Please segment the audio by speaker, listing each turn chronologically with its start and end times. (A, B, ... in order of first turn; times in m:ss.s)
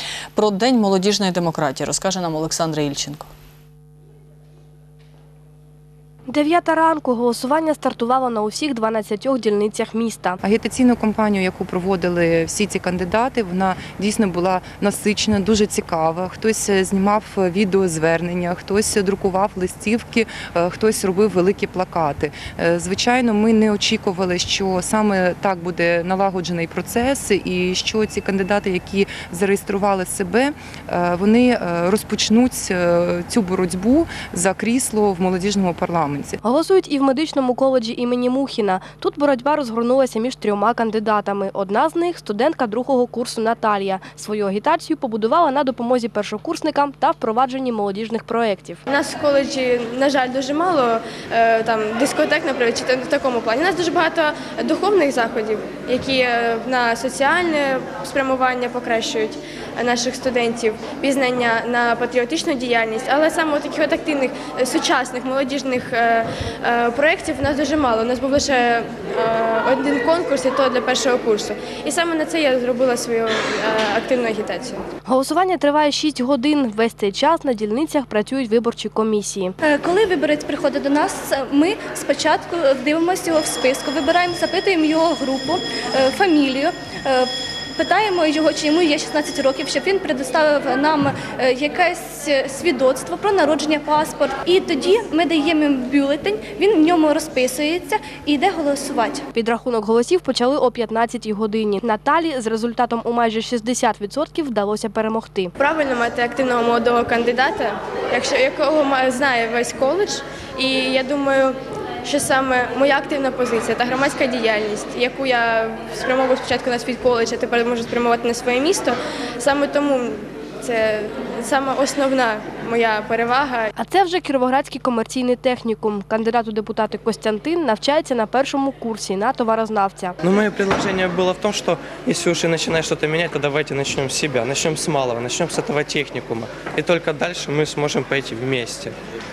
0:00.3-0:03.3 A
0:06.3-0:10.4 B
0:10.4-0:36.4 C
0:36.4-0:48.8 B
0:48.9-1:14.8 D
1:15.1-1:19.6 B
1:19.6-1:39.2 E
1:39.3-1:45.5 B
1:45.6-2:03.7 D
2:03.8-2:10.2 B
2:10.2-2:19.0 F